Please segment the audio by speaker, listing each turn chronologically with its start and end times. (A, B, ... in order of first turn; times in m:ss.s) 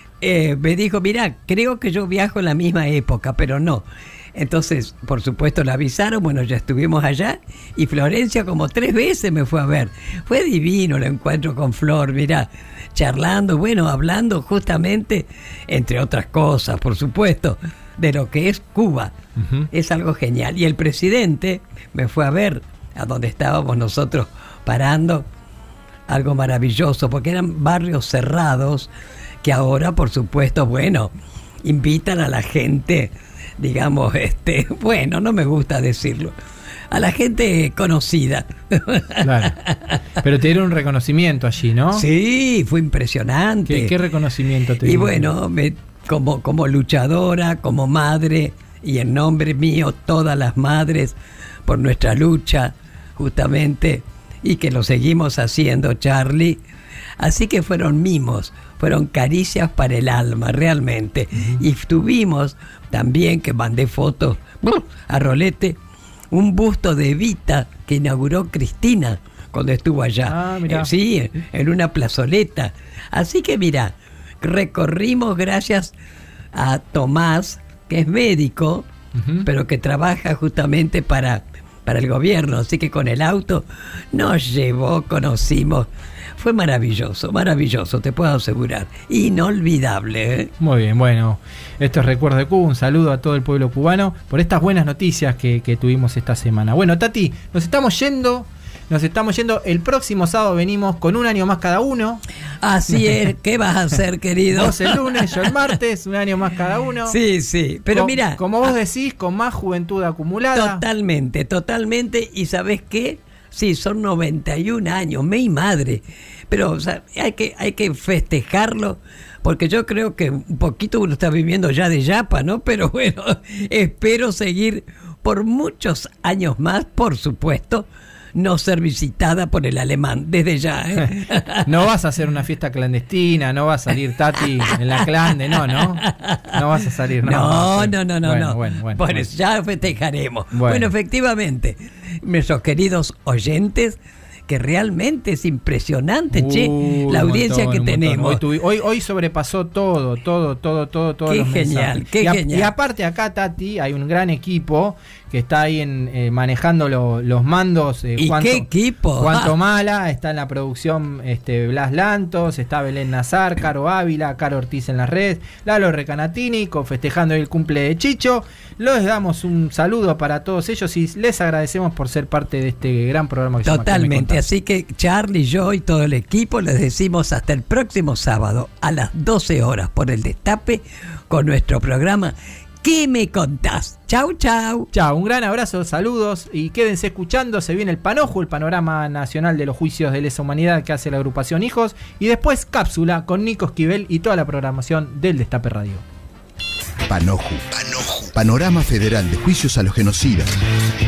0:00.2-0:19.1 A
0:19.4-0:19.7 B
0:19.7-0:25.2 A
0:26.1-0:28.9 A
0:29.4-0:31.1 A
0:31.6-0:36.3 A
0:36.9-0:40.0 A
0:39.2-0:39.6 B
0:40.2-0:42.0 B
0:41.9-0:43.9 A
0:43.7-0:45.3 B
0:44.8-0:51.1 A
0:51.6-0:56.6 A
0:57.2-1:05.8 A
1:01.3-1:01.6 B
1:06.3-1:15.9 A
1:10.2-1:10.9 B
1:16.5-1:18.8 A
1:19.1-1:19.5 B
1:19.4-1:30.5 A
1:30.6-1:42.2 B
1:42.6-1:45.5 A
1:42.9-1:43.2 B
1:44.5-1:47.2 B
1:47.0-1:48.4 A
1:47.9-1:50.8 B
1:50.5-2:11.6 A
2:11.6-2:19.3 B
2:15.7-2:16.4 A
2:17.2-2:28.4 A
2:20.5-2:20.9 B
2:26.3-2:54.4 B
2:31.3-2:32.7 A
2:38.2-2:39.5 A
2:53.6-3:04.9 A
3:04.9-3:16.0 B
3:17.0-3:20.5 C